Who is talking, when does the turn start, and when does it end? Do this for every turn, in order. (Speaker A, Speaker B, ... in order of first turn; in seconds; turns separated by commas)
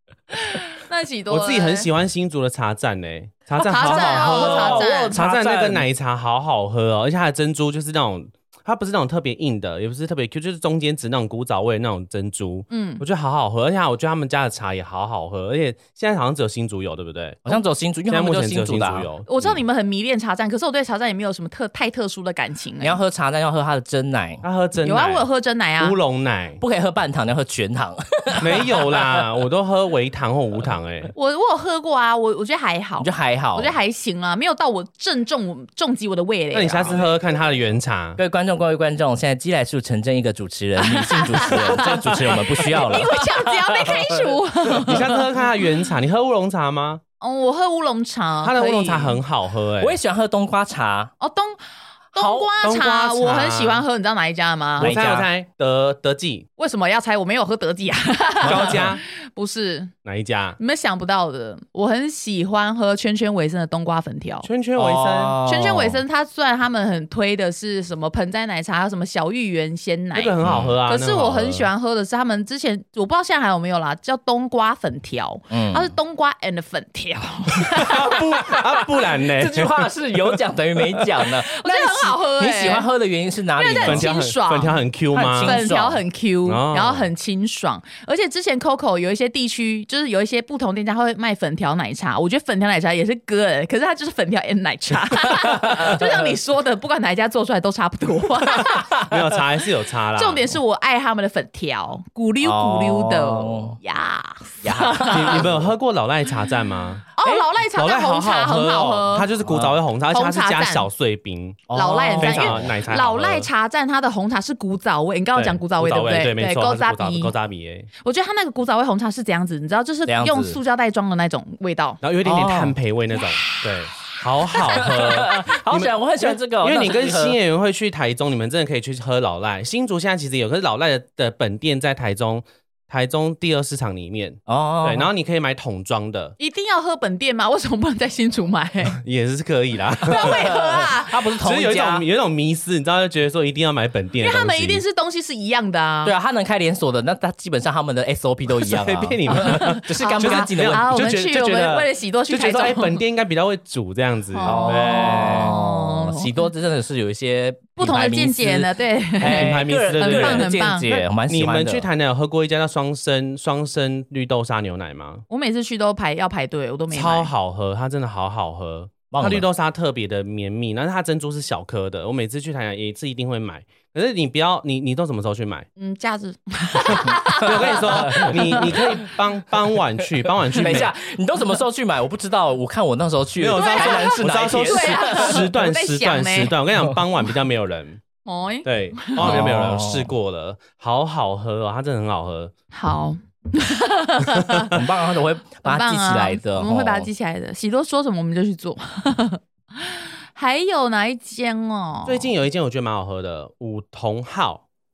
Speaker A: 0.3-1.9, Speaker B: 1.3-19.6, Speaker C: 3.6-5.9, Speaker A: 3.7-5.2, Speaker A: 12.7-13.0, Speaker C: 17.4-19.1, Speaker A: 19.2-23.0, Speaker C: 22.8-24.4, Speaker B: 24.4-25.3, Speaker A: 24.8-26.0, Speaker B: 25.8-26.6, Speaker C: 26.6-28.7, Speaker B: 28.4-31.1, Speaker A: 31.1-37.1, Speaker C: 33.0-33.8, Speaker B: 36.5-38.2, Speaker C: 38.2-44.3, Speaker A: 40.8-45.3, Speaker B: 41.8-42.4, Speaker B: 44.8-47.0, Speaker A: 47.2-49.2, Speaker B: 48.4-50.0, Speaker C: 49.8-51.1, Speaker A: 51.2-51.6, Speaker A: 52.1-55.0, Speaker C: 52.1-52.5, Speaker B: 52.6-53.8, Speaker B: 54.8-56.5, Speaker C: 54.8-55.3, Speaker A: 56.6-59.9, Speaker B: 58.4-59.0, Speaker C: 58.5-58.9, Speaker B: 60.0-60.6, Speaker A: 60.6-64.5, Speaker B: 64.4-65.4, Speaker C: 64.8-66.0, Speaker A: 65.4-78.2, Speaker B: 70.1-71.7, Speaker C: 70.4-70.8, Speaker C: 75.5-75.9, Speaker B: 77.7-80.4, Speaker C: 79.3-84.1, Speaker A: 81.5-82.9, Speaker A: 83.6-84.8, Speaker B: 83.8-85.6, Speaker C: 85.1-86.0, Speaker A: 85.4-98.9, Speaker B: 86.5-87.1, Speaker C: 95.6-96.3, Speaker B: 99.0-100.5, Speaker A: 100.2-105.5, Speaker C: 102.4-103.8, Speaker C: 104.6-105.6, Speaker B: 105.1-107.1, Speaker A: 107.2-109.3, Speaker B: 107.7-111.6, Speaker C: 109.4-109.7, Speaker A: 110.1-110.9, Speaker C: 111.7-112.7, Speaker A: 111.7-117.3, Speaker B: 112.2-113.5, Speaker B: 115.3-117.9, Speaker A: 118.0-122.0, Speaker C: 120.1-120.6, Speaker B: 122.0-136.4, Speaker C: 122.2-122.8, Speaker C: 124.7-127.4, Speaker C: 134.5-135.1, Speaker A: 136.4-139.0, Speaker B: 139.0-140.5, Speaker A: 140.1-141.3, Speaker C: 140.1-142.1, Speaker B: 141.4-144.8, Speaker A: 144.2-146.2, Speaker C: 146.0-151.2, Speaker B: 148.5-155.5, Speaker A: 149.3-153.0, Speaker A: 154.3-156.4, Speaker C: 154.4-161.9, Speaker A: 157.8-161.0, Speaker B: 159.2-160.5, Speaker B: 161.3-165.2, Speaker A: 165.3-167.3, Speaker B: 166.9-175.7, Speaker C: 169.1-169.5, Speaker A: 175.8-179.0, Speaker B: 176.9-180.9, Speaker C: 177.6-179.0, Speaker C: 180.5-185.5, Speaker B: 183.4-188.0, Speaker A: 183.6-186.6, Speaker A: 188.2-189.5, Speaker B: 188.7-192.5, Speaker C: 189.2-190.1, Speaker A: 192.7-194.8, Speaker C: 194.7-197.1, Speaker A: 195.6-202.3, Speaker B: 202.1-204.6